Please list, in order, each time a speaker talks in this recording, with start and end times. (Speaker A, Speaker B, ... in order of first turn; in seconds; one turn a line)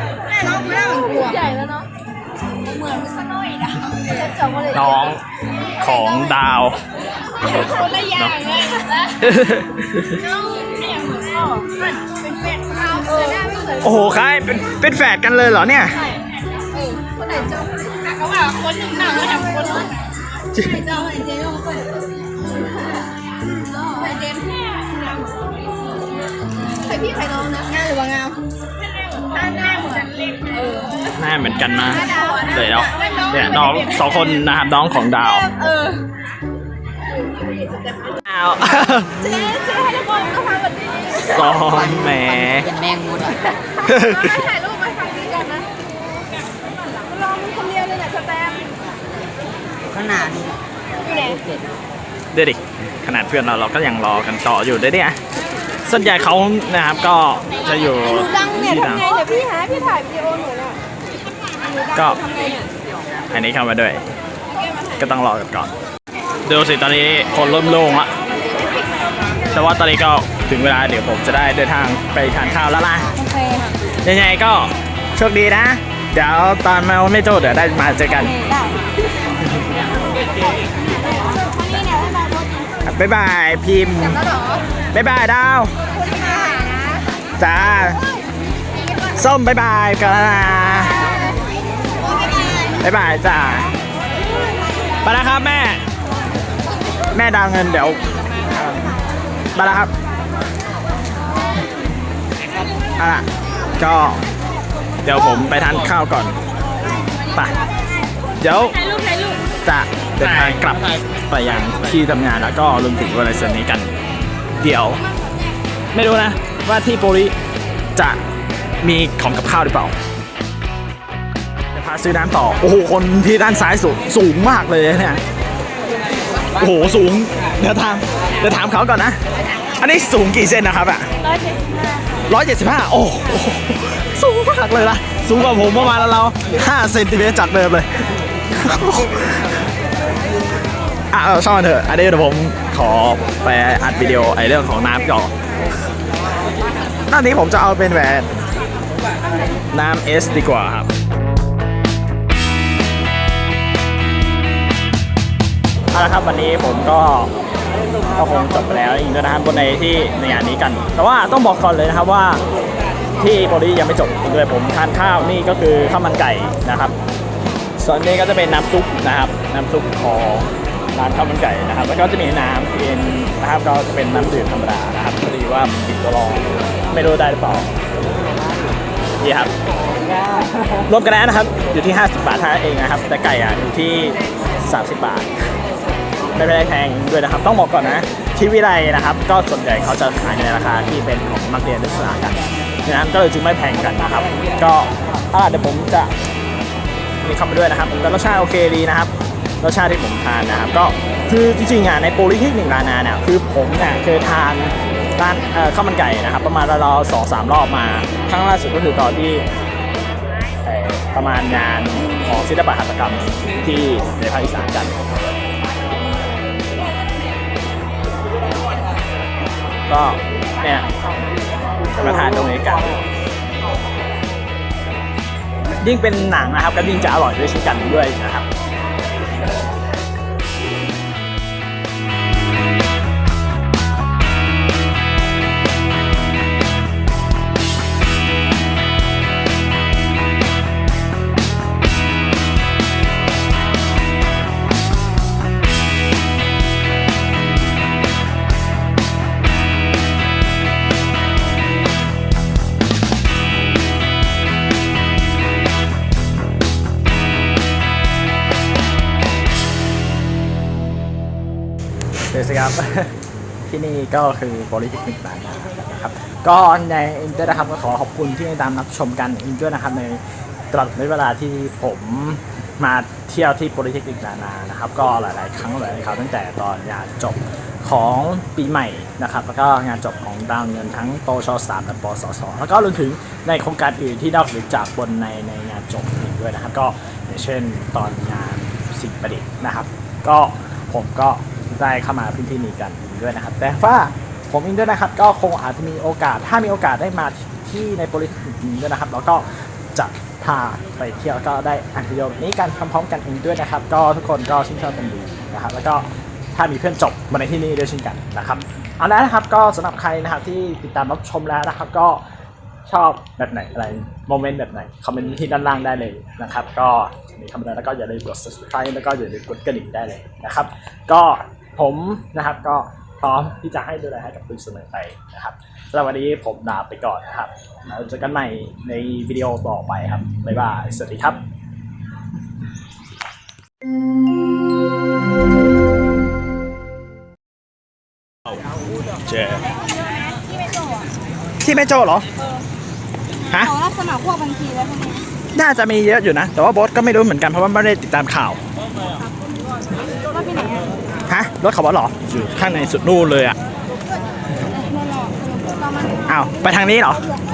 Speaker A: 0.3-1.9
Speaker A: 2.6-4.9
Speaker B: 4.7-5.2
Speaker B: 5.8-6.8
Speaker A: 7.4-9.2
Speaker B: 8.1-10.2
Speaker A: 10.2-13.9
Speaker B: 13.8-16.0
Speaker A: 16.0-22.0
Speaker A: 23.8-25.5
Speaker A: 26.8-28.4
Speaker A: 29.1-31.0
Speaker B: 31.1-35.5
Speaker A: 32.1-33.3
Speaker A: 35.5-36.0
Speaker B: 38.2-39.5
Speaker A: 39.2-41.2
Speaker B: 41.1-42.7
Speaker C: 41.9-43.4
Speaker B: 43.8-44.4
Speaker A: 44.1-45.7
Speaker A: 47.1-48.7
Speaker C: 49.9-50.6
Speaker A: 51.0-51.4
Speaker C: 51.3-51.6
Speaker B: 52.3-55.2
Speaker B: 55.8-59.1
Speaker A: 58.2-60.8
Speaker A: 61.6-62.7
Speaker B: 61.9-62.3
Speaker B: 63.3-64.0
Speaker B: 64.9-65.7
Speaker B: 66.4-68.1
Speaker B: 69.5-73.1
Speaker A: 73.2-73.7
Speaker B: 74.0-78.4
Speaker A: 78.4-78.8
Speaker A: 80.3-82.6
Speaker B: 82.8-84.3
Speaker A: 84.2-84.6
Speaker B: 84.9-85.7
Speaker A: 86.0-87.0
Speaker B: 87.4-88.0
Speaker B: 89.1-91.0
Speaker A: 92.0-92.8
Speaker B: 92.8-93.7
Speaker B: 95.0-95.8
Speaker B: 97.1-98.0
Speaker B: 98.5-98.8
Speaker B: 99.5-99.9
Speaker B: 103.0-104.2
Speaker B: 105.0-106.4
Speaker B: 108.4-108.8
Speaker B: 109.6-113.9
Speaker B: 114.6-115.1
Speaker B: 115.9-117.3
Speaker B: 117.9-118.2
Speaker B: 118.8-119.9
Speaker B: 121.7-125.2
Speaker B: 126.5-131.1
Speaker B: 132.2-137.9
Speaker B: 138.5-139.5
Speaker B: 141.1-145.3
Speaker B: 147.1-148.3
Speaker B: 149.7-150.9
Speaker B: 155.9-157.3
Speaker B: 158.1-162.4
Speaker B: 163.2-166.9
Speaker B: 167.8-177.7
Speaker B: 179.2-179.5
Speaker B: 180.8-185.3
Speaker B: 186.3-196.1
Speaker B: 197.2-209.4
Speaker B: 210.6-214.9
Speaker B: 219.9-220.9
Speaker B: 221.9-222.9
Speaker B: 225.8-228.5
Speaker B: 262.3-263.1
Speaker B: 263.7-312.2
Speaker B: 312.9-331.4
Speaker B: 339.2-339.6
Speaker B: 341.6-342.3
Speaker B: 343.5-343.8
Speaker A: 343.7-345.2
Speaker B: 345.5-348.6
Speaker A: 350.3-350.8
Speaker B: 351.3-353.6
Speaker A: 354.8-356.1
Speaker B: 356.2-357.3